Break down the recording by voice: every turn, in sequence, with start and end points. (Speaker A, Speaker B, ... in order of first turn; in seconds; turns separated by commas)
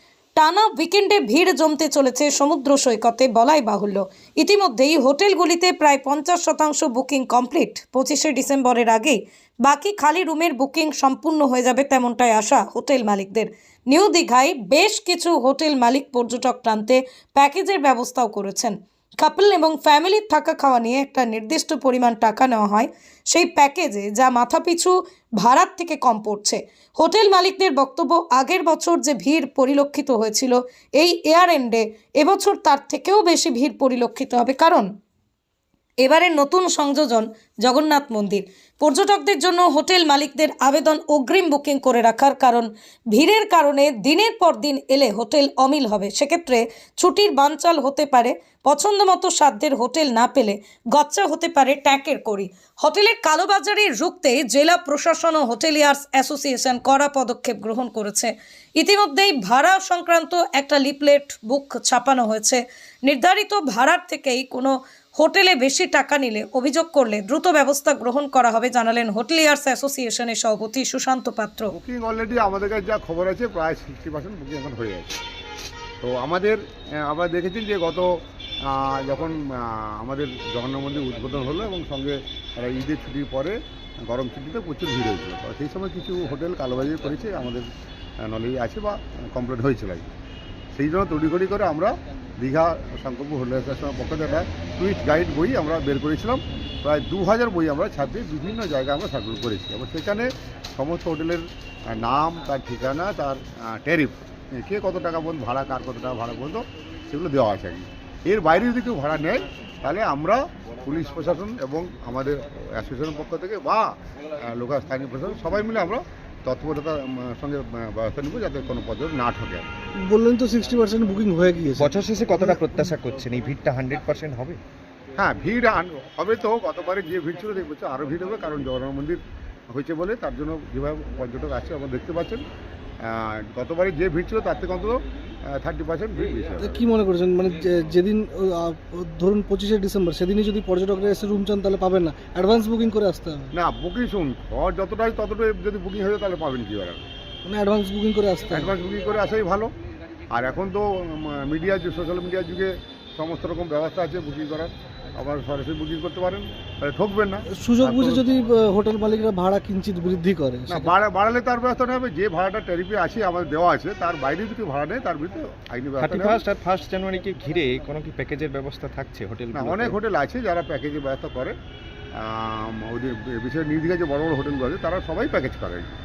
Speaker A: 0.3-34.9, Speaker A: 36.0-71.7, Speaker B: 71.7-75.2, Speaker B: 76.0-87.7, Speaker B: 88.2-90.1, Speaker B: 90.8-119.7, Speaker C: 120.0-122.7, Speaker D: 121.8-124.6, Speaker B: 125.2-132.4, Speaker B: 133.0-136.8, Speaker C: 136.6-143.5, Speaker B: 143.5-147.0, Speaker C: 147.4-148.7, Speaker B: 148.5-149.7, Speaker B: 150.3-158.3, Speaker C: 157.5-160.9, Speaker B: 160.7-166.4, Speaker D: 166.0-170.0, Speaker B: 169.5-171.6, Speaker B: 172.2-175.9